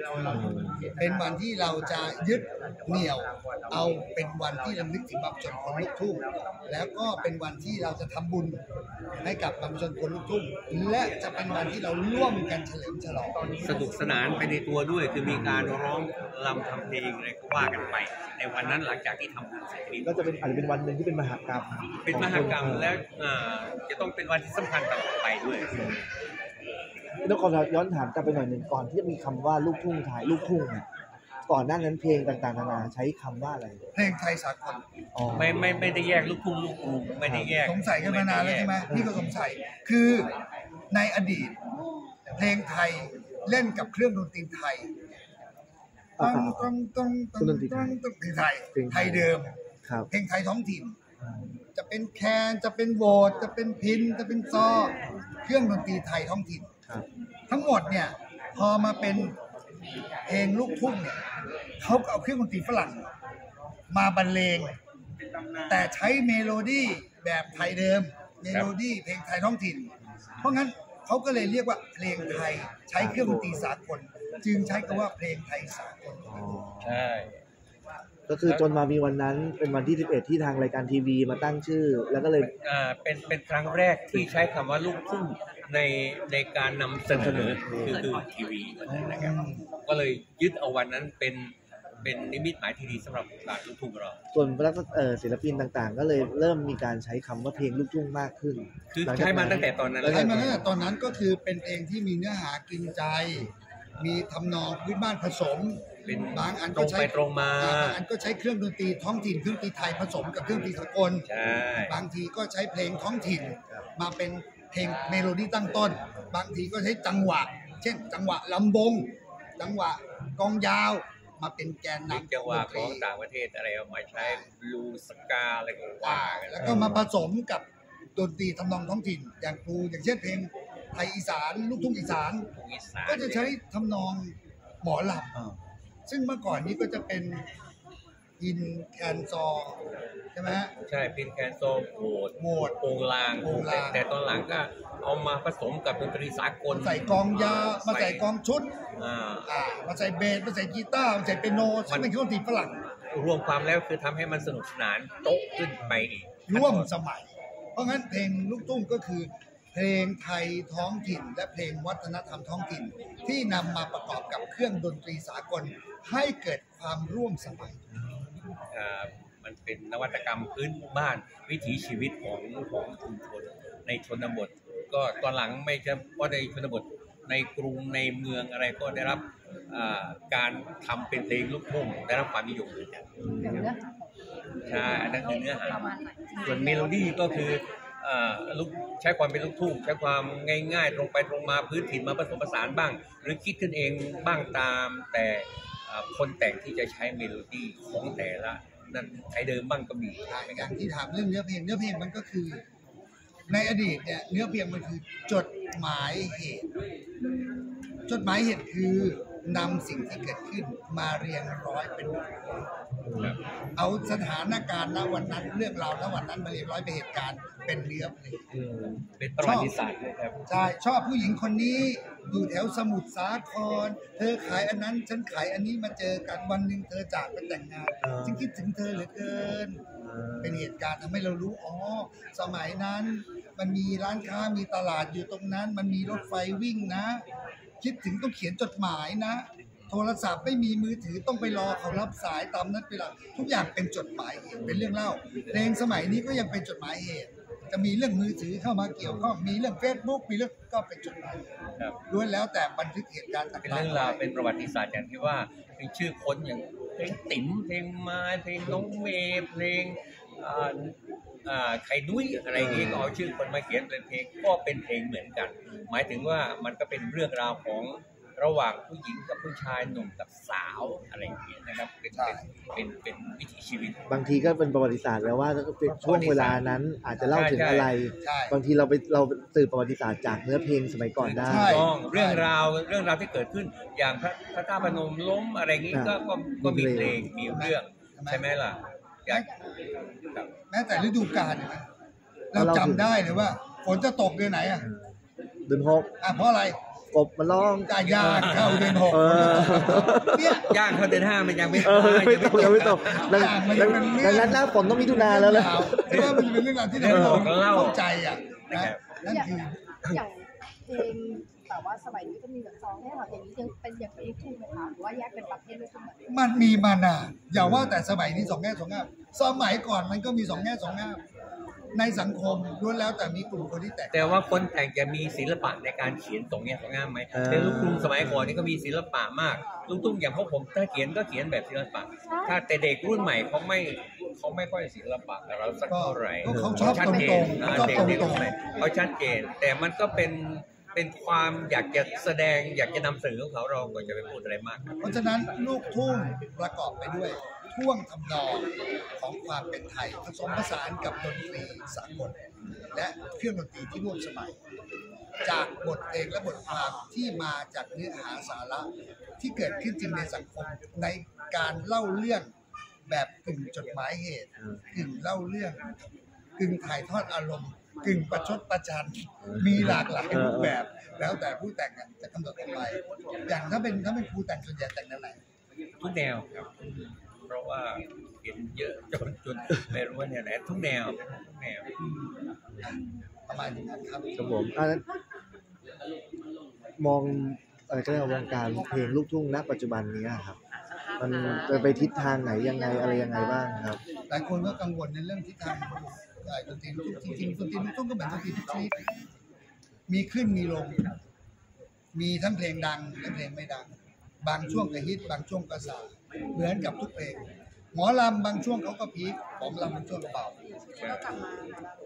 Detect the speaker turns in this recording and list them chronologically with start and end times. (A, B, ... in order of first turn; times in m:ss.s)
0:00.2-0:00.9 A
0:01.0-0:08.6 B
0:09.2-0:13.4 B
0:13.6-0:20.3 C
0:20.0-0:23.0 A
0:22.0-0:25.8 C
0:25.7-0:26.0 A
0:27.2-0:30.9 A
0:31.5-0:33.8 A
0:33.9-0:34.8 B
0:35.1-0:35.8 A
0:35.3-0:38.8 C
0:37.2-0:37.5 A
0:37.6-0:40.3 B
0:38.9-0:39.3 A
0:40.9-0:41.6 B
0:42.4-0:44.9 B
0:46.2-0:46.7 A
0:46.2-0:49.6 B
0:47.4-0:48.0 A
0:48.7-0:49.3 A
0:50.1-0:51.0 B
0:51.8-0:56.8 B
0:57.5-0:59.4 B
1:00.3-1:01.2 B
1:01.8-1:03.1 B
1:03.9-1:04.8 B
1:05.7-1:16.6 B
1:13.0-1:13.7 A
1:16.3-1:17.0 A
1:16.8-1:17.4 C
1:18.3-1:22.5 A
1:18.4-1:18.7 C
1:22.4-1:34.2 C
1:27.1-1:28.2 A
1:28.9-1:29.3 A
1:29.1-1:29.6 B
1:34.3-1:40.7 A
1:38.9-1:40.6 C
1:40.0-1:51.3 B
1:46.0-1:48.0 C
1:51.3-1:52.0 C
1:51.9-2:03.1 B
1:53.4-1:53.8 A
2:02.1-2:06.9 C
2:04.1-2:04.5 B
2:06.0-2:12.5 B
2:06.6-2:07.1 A
2:12.5-2:13.6 C
2:13.1-2:15.4 B
2:16.1-2:17.5 B
2:18.4-2:19.8 B
2:20.3-2:20.7 B
2:20.8-2:28.2 C
2:22.4-2:22.8 B
2:23.4-2:24.0 B
2:26.7-2:28.8 B
2:29.0-2:29.5 C
2:29.4-2:32.8 B
2:33.1-2:36.9 C
2:35.8-2:36.1 A
2:36.5-2:47.8 B
2:48.0-2:48.4 A
2:48.7-3:03.1 C
3:03.2-3:03.7 A
3:03.4-3:07.3 D
3:04.7-3:05.9 C
3:06.4-3:20.7 C
3:20.3-3:22.6 B
3:23.5-3:26.7 B
3:28.1-3:32.4 B
3:33.0-3:33.4 A
3:33.8-3:38.5 B
3:38.5-3:39.0 A
3:39.2-3:40.4 C
3:39.4-3:39.7 B
3:40.5-3:49.8 B
3:48.0-3:48.4 A
3:50.0-3:50.7 A
3:50.4-3:57.2 B
3:57.8-4:11.5 B
4:12.1-4:14.2 B
4:13.6-4:34.0 C
4:22.6-4:23.1 A
4:32.1-4:32.5 B
4:34.1-4:41.9 A
4:35.8-4:36.6 C
4:37.3-4:37.9 C
4:38.2-4:38.6 B
4:41.2-4:49.5 C
4:41.4-4:42.5 B
4:45.9-4:47.3 A
4:47.4-4:48.5 B
4:50.7-4:51.9 B
4:52.5-4:54.9 B
4:52.6-4:53.2 A
4:54.8-4:55.1 A
4:55.7-4:56.2 A
4:56.2-4:56.8 B
4:57.1-4:57.9 A
4:57.8-5:00.8 B
4:58.0-5:03.7 C
4:59.1-5:00.7 A
5:01.8-5:07.5 A
5:03.3-5:09.8 B
5:06.1-5:08.0 C
5:08.7-5:09.0 C
5:10.1-5:16.2 D
5:16.3-5:21.2 B
5:17.6-5:18.0 A
5:21.9-5:24.5 B
5:24.1-5:44.9 C
5:27.3-5:28.6 A
5:35.9-5:38.6 B
5:36.4-5:38.3 A
5:45.0-5:52.4 B
5:52.9-5:54.6 B
5:55.4-6:02.5 B
6:03.1-6:05.9 B
6:06.6-6:15.4 B
6:09.5-6:10.8 A
6:16.0-6:16.7 C
6:17.5-6:21.9 C
6:23.5-6:24.3 B
6:24.4-6:25.0 A
6:27.0-6:30.6 A
6:31.2-6:34.0 A
6:31.7-6:34.0 D
6:34.3-6:39.0 B
6:40.1-6:41.1 B
6:42.1-6:50.6 B
6:50.9-6:51.8 D
6:51.0-6:51.4 C